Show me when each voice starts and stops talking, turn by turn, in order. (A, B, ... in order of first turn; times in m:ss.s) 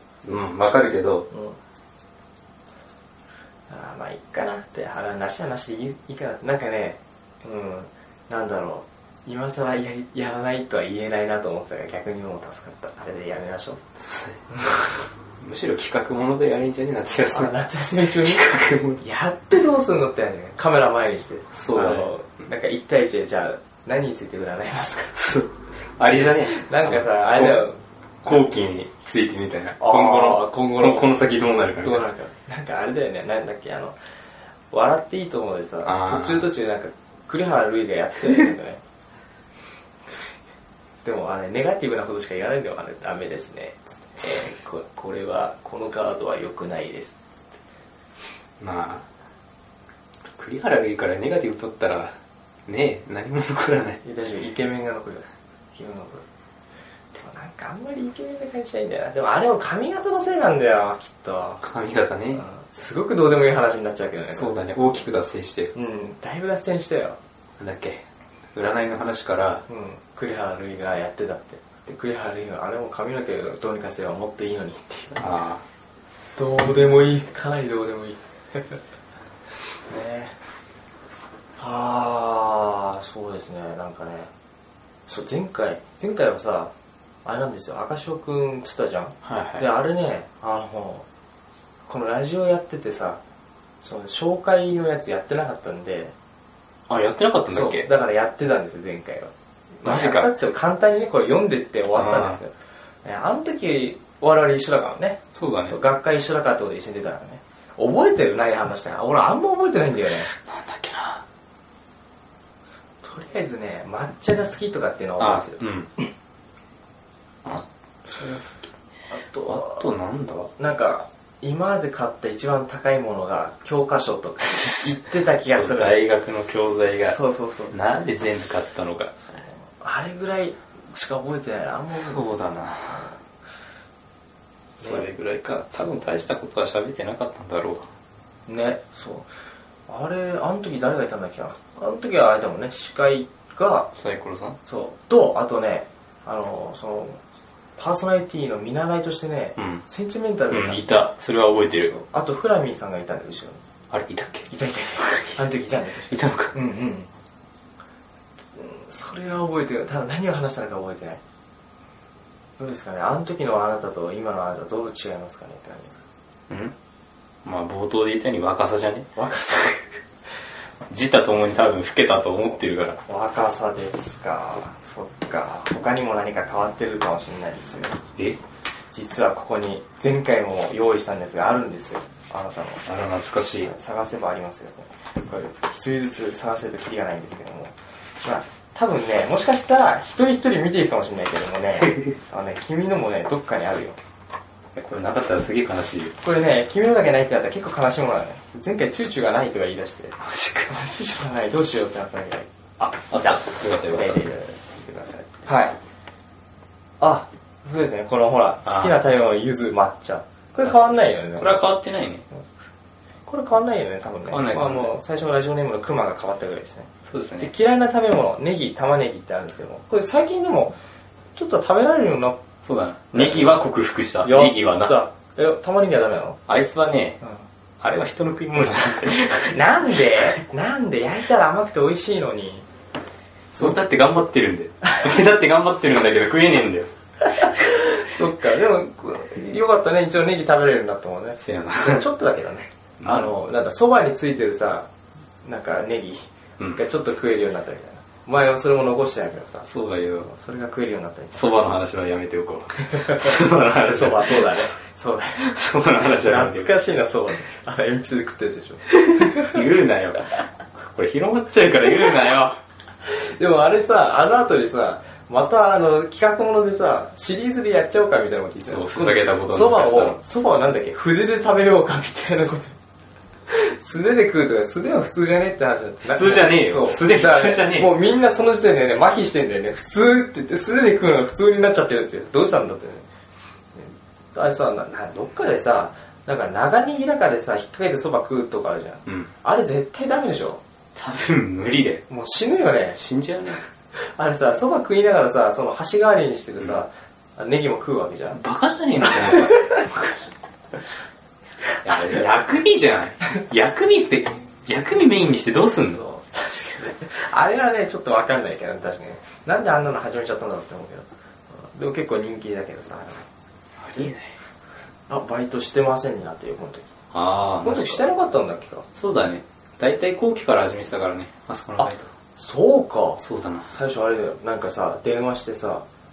0:00.2-0:01.3 A
0:01.3-0:01.6 B
0:03.7-0:13.8 B
0:14.0-0:14.4 A
0:14.5-0:14.8 B
0:15.4-0:17.5 A
0:17.3-0:25.2 B
0:18.2-0:19.0 A
0:21.5-0:22.1 A
0:25.1-0:27.7 A
0:26.4-0:28.6 B
0:28.2-0:32.0 A
0:29.8-0:31.2 B
0:31.8-0:34.0 B
0:34.7-0:38.8 B
0:35.8-0:36.5 A
0:41.0-0:47.2 B
0:48.6-0:49.1 A
0:50.3-0:54.0 A
0:54.0-0:56.2 B
0:57.1-1:01.6 B
1:01.6-1:02.5 A
1:02.4-1:04.6 B
1:04.3-1:05.7 A
1:05.7-1:07.2 B
1:07.6-1:09.6 A
1:09.7-1:15.3 B
1:15.2-1:15.6 A
1:16.4-1:18.8 B
1:19.9-1:20.4 B
1:21.6-1:24.3 B
1:25.1-1:26.7 B
1:27.2-1:31.0 B
1:29.2-1:29.6 A
1:31.9-1:33.2 B
1:33.8-1:36.1 B
1:36.9-1:37.9 A
1:37.5-1:50.3 B
1:39.8-1:40.4 A
1:41.9-1:42.4 A
1:45.4-1:45.8 A
1:50.3-1:51.2 A
1:53.0-1:56.1 B
1:55.2-1:55.9 A
1:57.4-2:00.5 A
1:59.1-1:59.8 B
2:00.6-2:06.0 B
2:05.5-2:07.2 A
2:06.9-2:07.8 B
2:07.7-2:09.1 A
2:09.8-2:12.3 B
2:11.9-2:13.1 A
2:14.8-2:17.9 A
2:18.5-2:19.3 B
2:19.9-2:23.9 B
2:24.0-2:24.6 A
2:24.7-2:27.2 B
2:27.8-2:31.1 B
2:29.6-2:29.8 A
2:30.5-2:31.9 A
2:31.8-2:33.6 B
2:33.9-2:35.4 A
2:34.5-2:37.1 B
2:36.1-2:36.5 A
2:38.6-2:41.2 B
2:42.6-2:46.0 B
2:46.5-2:46.7 A
2:47.4-2:49.1 A
2:49.2-2:50.0 B
2:50.9-2:53.0 A
2:53.1-2:58.0 B
2:58.9-3:02.9 B
3:02.9-3:03.7 A
3:03.6-3:14.0 B
3:14.8-3:16.1 A
3:16.2-3:22.5 B
3:20.2-3:20.7 A
3:22.8-3:24.2 A
3:23.2-3:25.8 B
3:27.0-3:31.6 B
3:28.7-3:28.9 A
3:31.4-3:32.3 A
3:33.3-3:36.9 B
3:34.3-3:34.9 A
3:37.1-3:37.5 A
3:37.4-3:40.8 B
3:41.4-3:42.4 B
3:42.6-3:45.0 A
3:43.1-3:43.6 B
3:44.2-3:46.4 B
3:46.5-3:47.2 A
3:47.8-3:49.6 A
3:49.4-3:52.7 B
3:53.5-3:56.9 A
3:57.4-4:04.9 B
4:01.4-4:02.0 A
4:03.0-4:03.3 A
4:05.4-4:09.7 B
4:09.7-4:10.4 A
4:10.3-4:11.5 B
4:11.3-4:14.7 A
4:13.0-4:19.6 B
4:15.4-4:16.7 A
4:19.0-4:22.6 A
4:23.0-4:32.8 B
4:28.6-4:30.2 A
4:33.5-4:43.1 B
4:36.0-4:37.9 A
4:43.8-4:50.6 B
4:49.1-4:49.3 A
4:51.0-4:52.1 A
4:52.1-4:53.0 B
4:53.0-4:53.6 A
4:54.0-4:58.4 B
4:58.3-5:00.3 A
5:01.8-5:06.0 A
5:05.9-5:13.3 B
5:13.8-5:14.4 A
5:15.1-5:16.9 B
5:17.1-5:18.1 A
5:17.6-5:18.8 B
5:19.0-5:22.1 A
5:21.8-5:25.8 B
5:23.2-5:23.7 A